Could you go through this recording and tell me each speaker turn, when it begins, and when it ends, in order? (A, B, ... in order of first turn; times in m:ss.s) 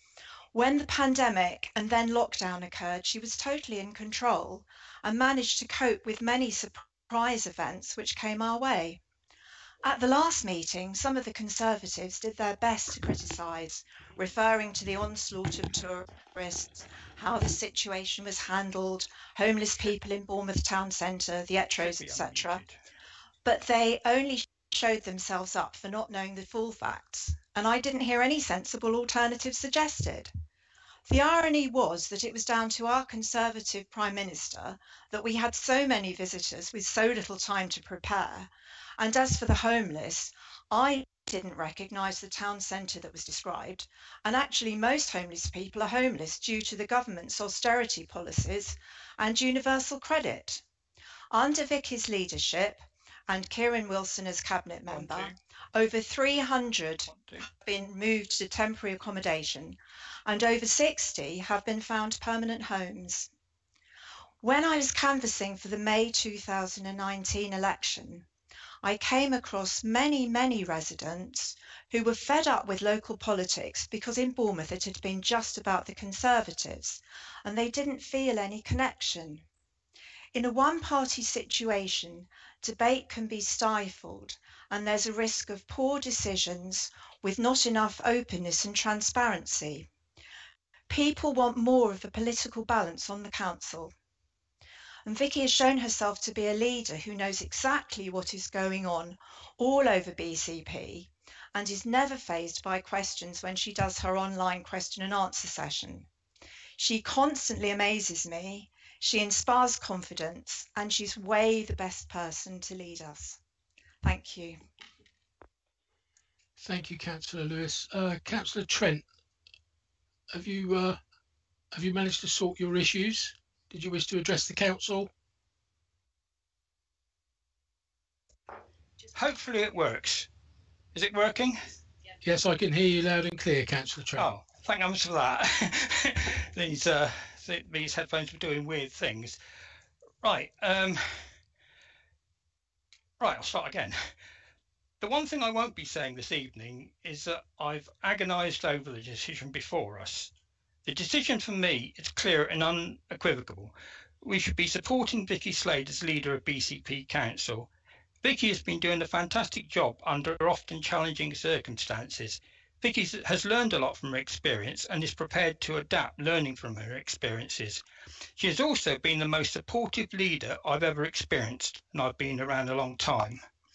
0:00.5-0:09.0 A
0:09.8-0:22.6 A
0:21.6-0:22.8 B
0:23.4-0:30.3 A
0:31.0-0:50.6 A
0:51.3-1:03.3 A
0:54.8-0:55.4 B
0:57.1-0:57.5 B
1:04.4-1:08.2 A
1:08.8-1:19.4 A
1:20.3-1:29.8 A
1:30.9-1:33.9 A
1:35.0-1:46.1 A
1:46.8-1:53.4 A
1:54.0-1:54.6 A
1:56.6-1:59.0 C
2:00.3-2:01.0 C
2:01.7-2:05.1 C
2:09.1-2:10.3 B
2:10.9-2:11.6 B
2:12.2-2:14.3 C
2:14.1-2:19.4 B
2:20.2-2:21.3 B
2:23.2-2:24.1 B
2:25.0-2:30.3 B
2:30.8-2:37.7 B
2:38.2-2:47.8 B
2:48.4-2:53.4 B